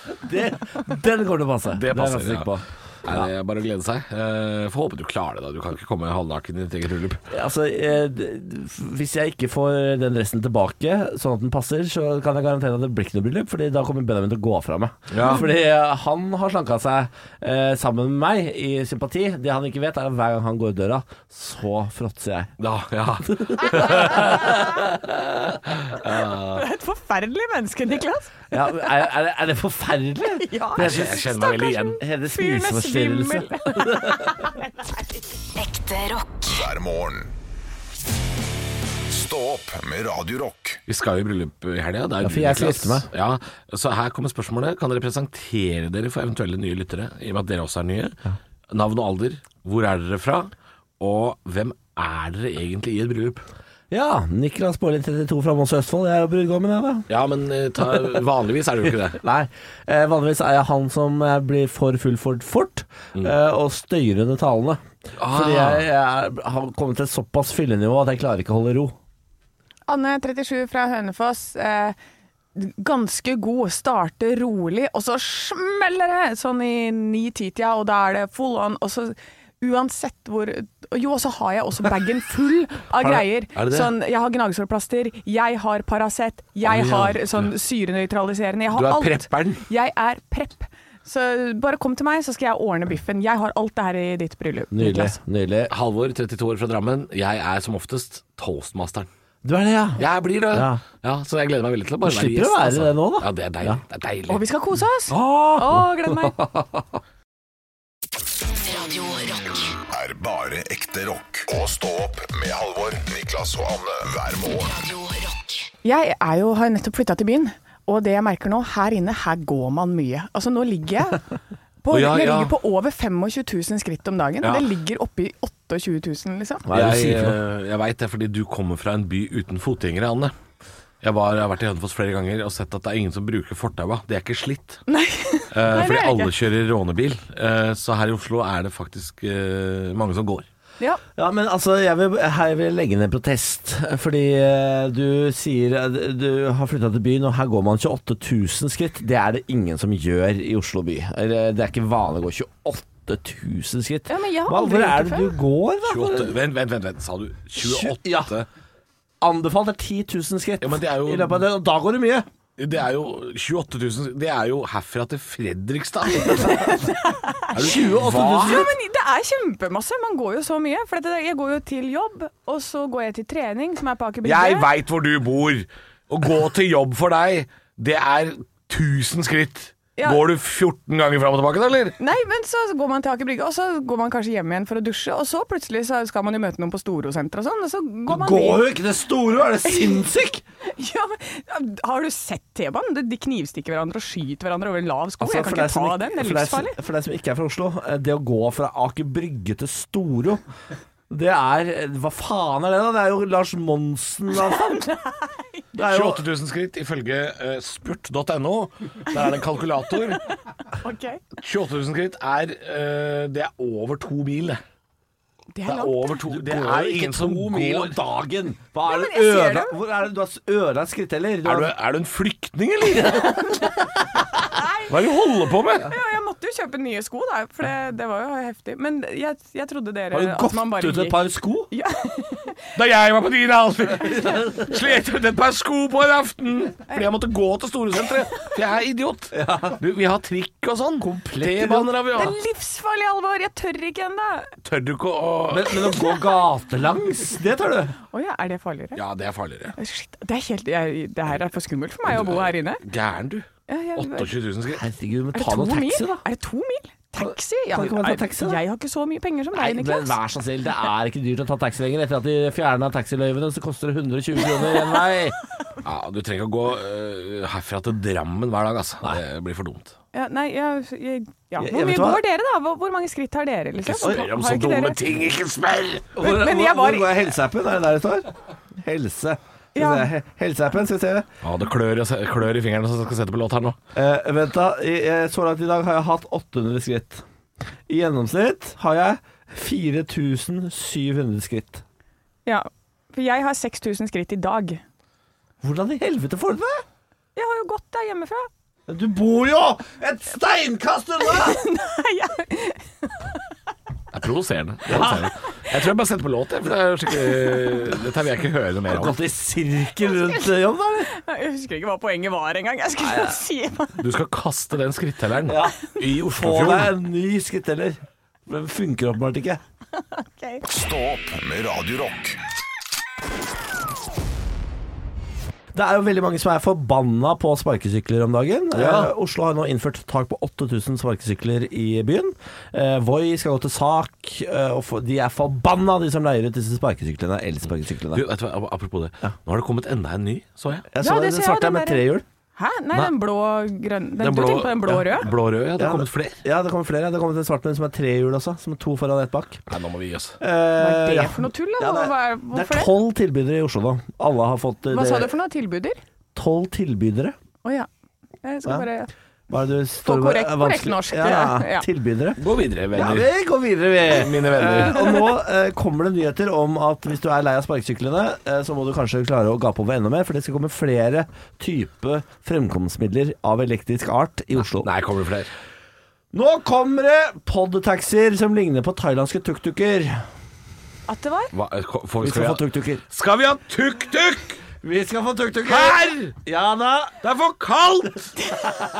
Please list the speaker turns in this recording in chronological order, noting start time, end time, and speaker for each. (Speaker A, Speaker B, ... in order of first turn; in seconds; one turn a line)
Speaker A: 0.2-3.3
Speaker B: 1.7-2.5
Speaker B: 3.0-7.2
Speaker A: 7.3-22.5
Speaker B: 15.1-15.4
Speaker B: 22.6-24.6
Speaker A: 23.3-25.3
Speaker B: 25.8-26.6
Speaker C: 26.5-29.0
Speaker A: 28.5-31.2
Speaker C: 30.3-35.2
Speaker B: 30.8-32.0
Speaker A: 32.0-34.4
Speaker D: 35.6-36.7
Speaker E: 36.5-37.3
Speaker E: 39.1-40.8
Speaker B: 40.9-48.2
Speaker A: 42.2-43.1
Speaker B: 48.7-53.4
Speaker A: 53.9-57.1
Speaker B: 57.1-59.2
Speaker A: 59.1-69.0
Speaker B: 65.2-65.9
Speaker C: 69.9-72.0
Speaker C: 72.5-95.2
Speaker B: 83.5-83.9
Speaker B: 86.7-87.5
Speaker B: 88.7-89.6
Speaker A: 94.7-95.7
Speaker B: 95.7-99.1
Speaker A: 99.4-100.8
Speaker B: 100.0-104.4
Speaker A: 102.0-103.8
Speaker C: 104.3-106.4
Speaker B: 105.1-105.6
Speaker A: 105.2-106.8
Speaker D: 108.5-109.8
Speaker E: 109.9-114.8
Speaker D: 114.7-115.7
Speaker C: 115.8-121.2
Speaker C: 121.8-126.7
Speaker B: 121.9-122.5
Speaker B: 124.4-124.7
Speaker A: 126.7-127.4
Speaker B: 126.7-130.3
Speaker B: 131.0-134.8
Speaker C: 134.9-136.3
Speaker B: 135.5-140.4
Speaker A: 141.2-156.3
Speaker C: 154.1-155.3
Speaker B: 155.8-158.5
Speaker A: 157.6-158.3
Speaker A: 159.2-162.3
Speaker B: 160.6-161.4
Speaker B: 162.6-166.7
Speaker C: 166.3-167.8
Speaker B: 167.5-168.7
Speaker A: 167.5-168.7
Speaker C: 168.3-174.7
Speaker B: 174.2-182.0
Speaker C: 180.0-180.2
Speaker C: 182.0-188.7
Speaker A: 188.1-190.4
Speaker C: 189.7-190.0
Speaker C: 190.6-196.8
Speaker A: 195.2-200.4
Speaker A: 201.1-204.8
Speaker C: 204.4-205.6
Speaker A: 205.7-206.2
Speaker B: 205.8-210.2
Speaker C: 210.7-211.2
Speaker B: 211.4-214.6
Speaker C: 215.5-216.2
Speaker B: 215.7-218.0
Speaker A: 216.2-221.7
Speaker C: 218.8-219.8
Speaker B: 221.4-223.7
Speaker A: 222.9-223.7
Speaker C: 224.5-224.8
Speaker B: 224.9-225.9
Speaker C: 225.8-232.6
Speaker A: 230.1-231.7
Speaker B: 232.7-242.4
Speaker A: 234.1-234.6
Speaker A: 239.3-239.8
Speaker A: 241.0-241.9
Speaker C: 242.1-244.5
Speaker B: 244.6-246.0
Speaker A: 245.5-247.9
Speaker C: 248.1-249.0
Speaker B: 248.9-249.7
Speaker C: 249.7-252.8
Speaker B: 252.1-254.8
Speaker C: 253.7-254.3
Speaker A: 254.7-256.2
Speaker C: 255.3-260.2
Speaker A: 257.2-258.6
Speaker A: 259.5-265.4
Speaker C: 264.6-265.0
Speaker B: 265.8-269.9
Speaker C: 270.1-275.0
Speaker A: 271.6-272.2
Speaker B: 273.8-276.1
Speaker A: 276.1-281.3
Speaker C: 276.2-277.3
Speaker C: 279.8-280.1
Speaker B: 281.4-283.8
Speaker A: 283.9-287.2
Speaker A: 287.9-291.8
Speaker C: 292.4-294.8
Speaker A: 295.6-296.8
Speaker C: 297.4-298.5
Speaker A: 298.9-301.6
Speaker C: 301.2-303.4
Speaker B: 304.1-309.1
Speaker A: 304.9-305.3
Speaker A: 308.9-311.1
Speaker C: 310.0-310.5
Speaker C: 311.1-314.0
Speaker A: 313.0-313.4
Speaker B: 314.0-316.9
Speaker A: 315.4-315.8
Speaker A: 316.3-319.6
Speaker C: 320.1-320.6
Speaker E: 320.7-322.4
Speaker A: 325.7-338.2
Speaker B: 328.7-329.1
Speaker B: 338.1-340.9
Speaker A: 340.9-342.2
Speaker C: 341.0-342.0
Speaker C: 342.6-345.3
Speaker B: 344.2-346.4
Speaker A: 345.8-349.6
Speaker B: 349.7-350.4
Speaker A: 350.4-355.3
Speaker C: 350.8-352.9
Speaker C: 354.9-356.0
Speaker A: 356.3-357.4
Speaker C: 358.4-359.1
Speaker A: 359.5-362.4
Speaker C: 360.0-361.9
Speaker B: 362.4-363.3
Speaker A: 362.9-374.9
Speaker B: 364.0-365.0
Speaker C: 365.0-365.3
Speaker B: 374.7-375.5
Speaker A: 376.3-380.2
Speaker C: 381.1-381.5
Speaker B: 381.5-384.6
Speaker A: 382.2-383.0
Speaker A: 384.8-387.2
Speaker B: 385.6-386.3
Speaker B: 387.2-388.3